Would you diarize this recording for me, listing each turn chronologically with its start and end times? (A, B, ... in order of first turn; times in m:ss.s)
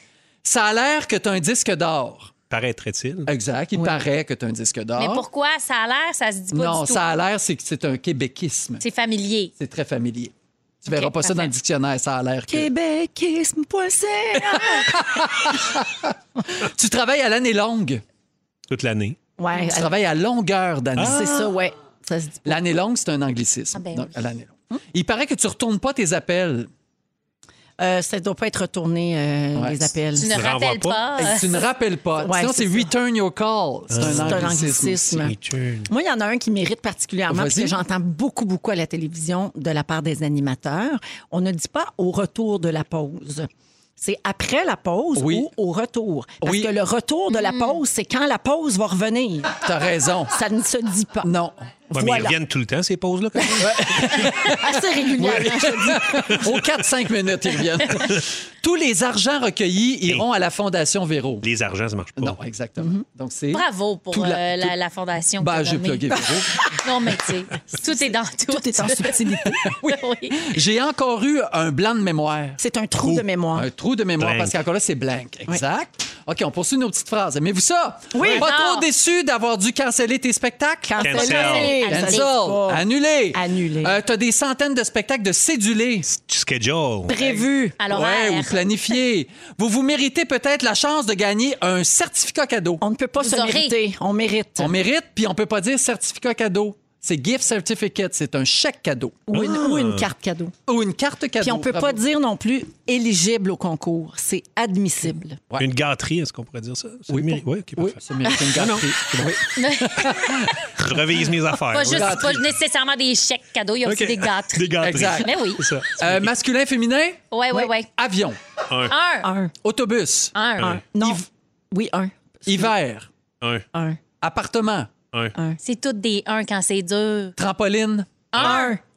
0:00.4-0:02.3 A
0:02.5-0:03.3 B
0:03.3-0:05.2 A
0:03.8-0:04.0 C
0:05.0-0:07.0 D
0:06.5-0:08.8 A
0:08.8-0:09.5 D
0:09.6-0:12.7 A
0:10.9-0:11.5 D
0:12.5-0:15.0 C
0:14.5-0:18.0 A
0:18.7-0:19.2 B
0:19.4-0:19.9 C
0:19.6-0:21.5 A
0:21.0-0:21.3 B
0:21.0-0:22.6 C
0:22.4-0:26.7 A
0:23.7-0:24.1 D
0:27.8-0:30.3 C
0:29.6-0:29.9 A
0:30.2-0:31.6 D
0:30.3-0:31.0 B
0:31.2-0:35.3 A
0:32.2-0:32.9 C
0:33.9-0:35.9 B
0:34.0-0:35.3 C
0:35.9-0:49.6 C
0:37.3-0:37.8 A
0:45.2-0:45.5 A
0:46.4-0:46.7 A
0:47.3-0:47.8 D
0:49.6-0:50.4 A
0:50.3-0:51.3 C
0:51.2-0:51.6 A
0:51.9-0:52.4 C
0:51.9-0:54.3 B
0:53.5-0:56.6 C
0:53.6-1:01.4 A
1:01.4-1:02.4 B
1:02.2-1:04.8 A
1:03.5-1:09.2 D
1:05.4-1:06.8 A
1:08.5-1:09.7 C
1:09.6-1:26.1 A
1:09.8-1:10.4 D
1:12.6-1:13.7 C
1:14.2-1:14.6 B
1:18.1-1:18.5 C
1:18.3-1:18.9 D
1:20.9-1:24.0 C
1:21.0-1:21.8 B
1:21.0-1:22.3 D
1:26.1-1:27.2 B
1:27.1-1:27.8 C
1:27.2-1:32.8 A
1:27.8-1:28.6 D
1:32.8-1:34.8 C
1:33.2-1:33.8 D
1:34.6-1:39.5 A
1:39.3-1:40.5 C
1:39.3-1:40.1 B
1:40.7-1:42.0 A
1:41.4-1:45.4 C
1:45.6-1:49.4 B
1:47.1-1:51.0 A
1:49.6-1:50.1 D
1:50.1-1:52.3 B
1:51.7-1:55.6 D
1:51.8-1:52.5 A
1:53.9-1:56.3 B
1:54.8-1:55.4 A
1:56.0-1:58.4 A
1:57.3-1:57.9 D
1:58.7-1:58.9 B
1:58.9-1:59.3 D
1:59.2-1:59.5 C
1:59.6-2:00.4 A
2:00.3-2:00.8 D
2:00.6-2:02.7 C
2:02.5-2:03.1 A
2:03.7-2:04.0 C
2:04.2-2:04.9 A
2:05.6-2:07.4 D
2:07.4-2:08.6 A
2:08.3-2:08.8 D
2:08.3-2:08.8 C